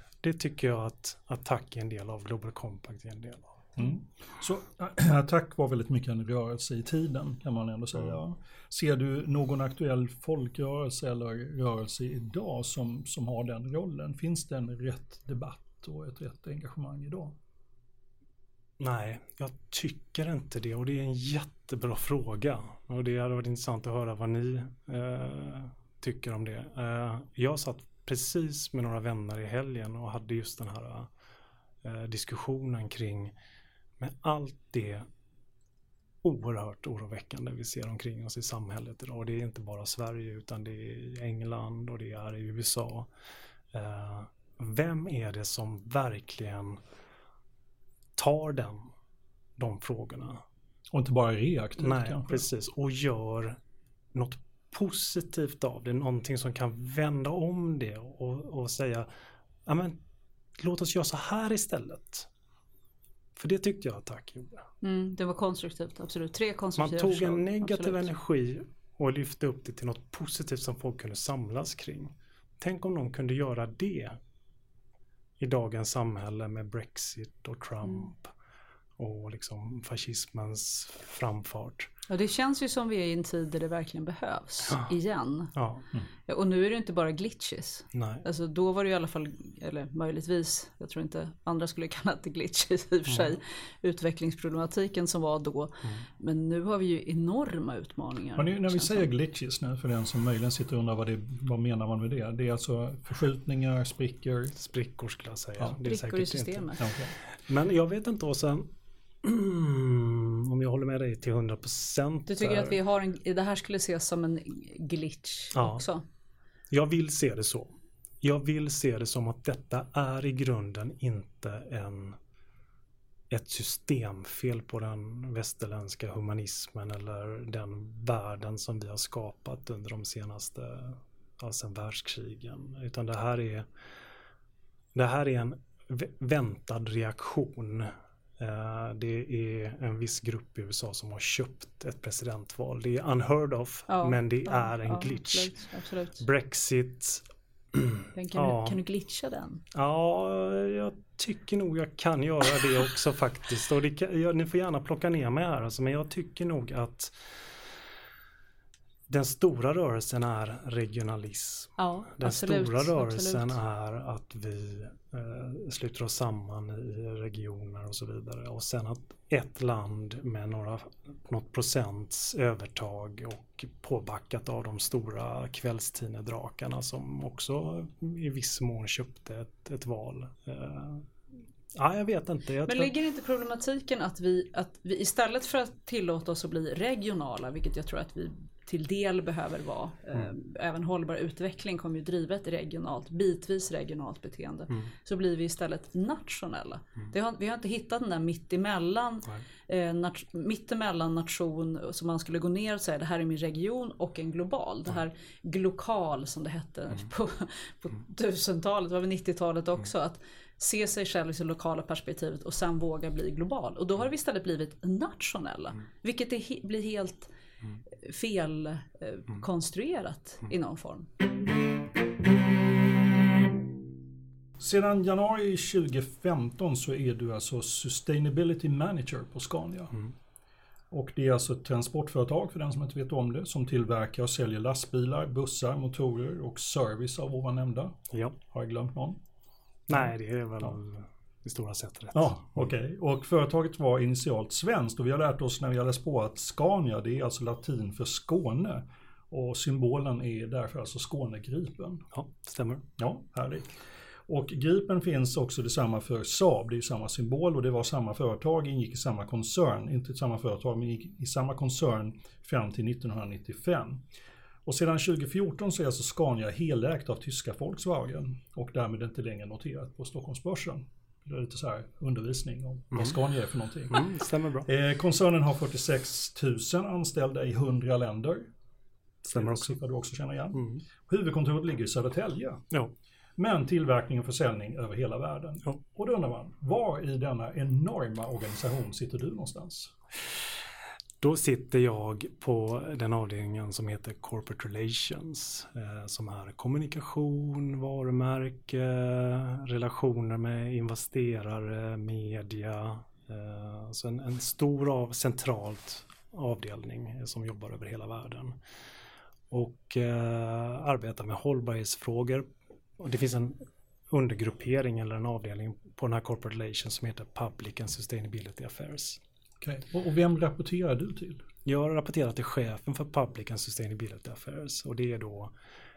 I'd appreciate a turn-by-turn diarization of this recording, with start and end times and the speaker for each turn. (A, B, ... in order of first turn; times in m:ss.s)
0:00.2-0:03.6 A
0:03.8-0:17.3 B
0:18.8-0:31.1 A
0:31.8-0:33.3 A
0:34.0-0:35.0 A
0:36.2-0:43.1 A
0:43.7-0:46.8 A
0:48.2-0:48.9 A
0:49.6-0:50.4 A
0:50.9-0:52.4 B
0:51.8-0:53.6 A
0:54.1-0:59.1 A
0:59.6-1:00.0 A
1:00.6-1:02.3 A
1:03.4-1:04.6 A
1:04.8-1:08.1 C
1:06.8-1:14.2 A
1:15.4-1:18.3 A
1:19.0-1:21.9 A
1:22.1-1:25.5 C
1:25.5-1:25.8 A
1:26.3-1:39.1 C
1:27.9-1:28.2 A
1:33.1-1:33.3 A
1:38.4-1:44.5 B
1:44.6-1:46.7 A
1:45.8-1:46.8 C
1:46.8-1:47.1 B
1:47.4-1:48.7 A
1:49.2-1:52.8 A
1:52.3-1:56.0 C
1:55.5-1:55.8 A
1:56.7-2:02.2 A
2:03.3-2:13.7 A
2:14.9-2:25.6 A
2:23.9-2:26.2 C
2:26.2-2:28.8 A
2:28.1-2:29.6 C
2:29.7-2:37.2 A
2:39.1-3:01.1 A
2:41.8-2:43.6 C
3:01.7-3:02.9 A
3:02.6-3:37.3 C
3:37.9-3:41.1 C
3:44.6-3:50.0 B
3:50.9-3:58.0 B
3:58.1-3:58.4 A
3:58.5-3:59.2 B
3:59.9-4:02.6 A
4:02.1-4:12.0 B
4:12.1-4:12.9 A
4:13.0-4:13.8 B
4:14.3-4:24.0 B
4:24.6-4:38.5 B
4:32.9-4:33.2 A
4:33.9-4:34.7 A
4:39.2-4:39.8 A
4:39.3-4:42.6 B
4:40.5-4:40.8 A
4:43.4-4:49.9 B
4:51.2-5:08.6 A
5:09.5-5:12.5 A
5:13.0-5:19.2 A
5:19.6-5:21.4 B
5:21.6-5:25.5 A